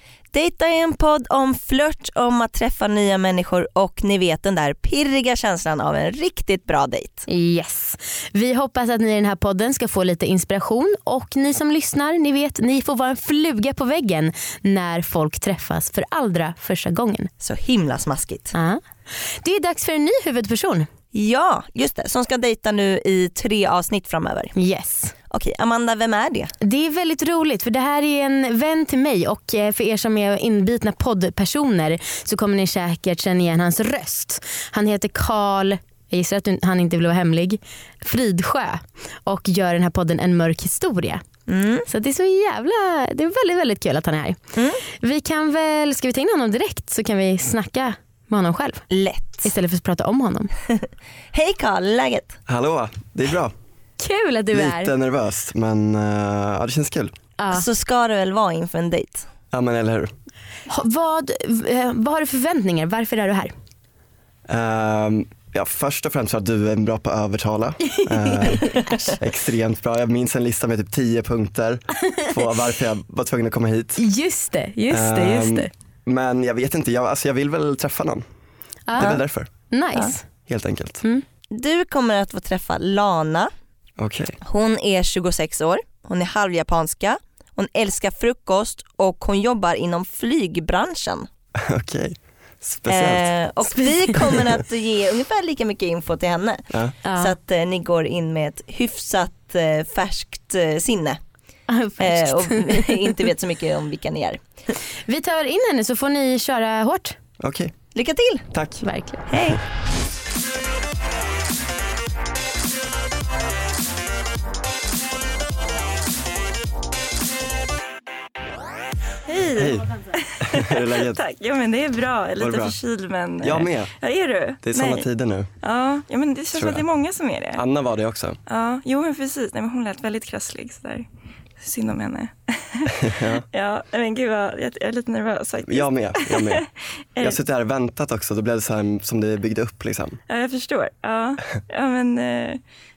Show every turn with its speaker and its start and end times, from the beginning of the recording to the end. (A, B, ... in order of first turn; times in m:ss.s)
0:00.3-0:07.2 A
0:07.3-0:17.3 B
0:17.4-0:18.5 A
0:18.5-0:18.8 B
0:19.4-0:20.9 B
0:21.1-0:24.5 A
0:24.6-0:25.1 B
0:25.3-0:26.5 A
0:26.6-0:41.2 B
0:41.5-0:41.8 A
0:41.9-0:44.4 B
0:44.6-0:44.8 A
0:45.0-0:48.8 B
0:48.9-0:49.4 A
0:49.4-0:50.5 B
0:51.3-0:52.4 A
0:52.5-0:53.5 C
0:54.0-0:54.9 B
0:54.5-0:57.1 C
0:57.4-0:57.6 B
0:57.5-0:59.3 A
0:59.5-1:00.1 C
1:00.7-1:03.5 B
1:04.5-1:14.0 C
1:14.0-1:15.7 B
1:14.9-1:18.2 C
1:18.9-1:20.2 B
1:19.0-1:19.5 C
1:20.4-1:21.0 C
1:21.5-1:23.5 A
1:24.0-1:24.4 C
1:24.4-1:31.3 A
1:31.6-1:33.3 C
1:32.9-1:41.2 A
1:36.7-1:37.0 C
1:37.0-1:37.3 B
1:41.7-1:42.0 B
1:42.0-1:44.4 A
1:45.1-1:47.1 B
1:47.4-1:47.7 C
1:47.9-1:48.4 A
1:48.5-1:48.8 C
1:48.8-1:49.2 B
1:49.3-1:49.6 A
1:59.3-2:05.1 D
1:59.5-1:59.9 C
2:00.4-2:01.2 C
2:02.4-2:02.8 C
2:03.4-2:03.9 C
2:04.6-2:05.5 C
2:05.6-2:07.6 D
2:06.5-2:06.8 C
2:07.5-2:08.4 C
2:08.5-2:11.0 D
2:11.6-2:17.4 D
2:13.0-2:13.4 C
2:15.7-2:16.6 C
2:17.2-2:20.2 C
2:20.3-2:22.6 D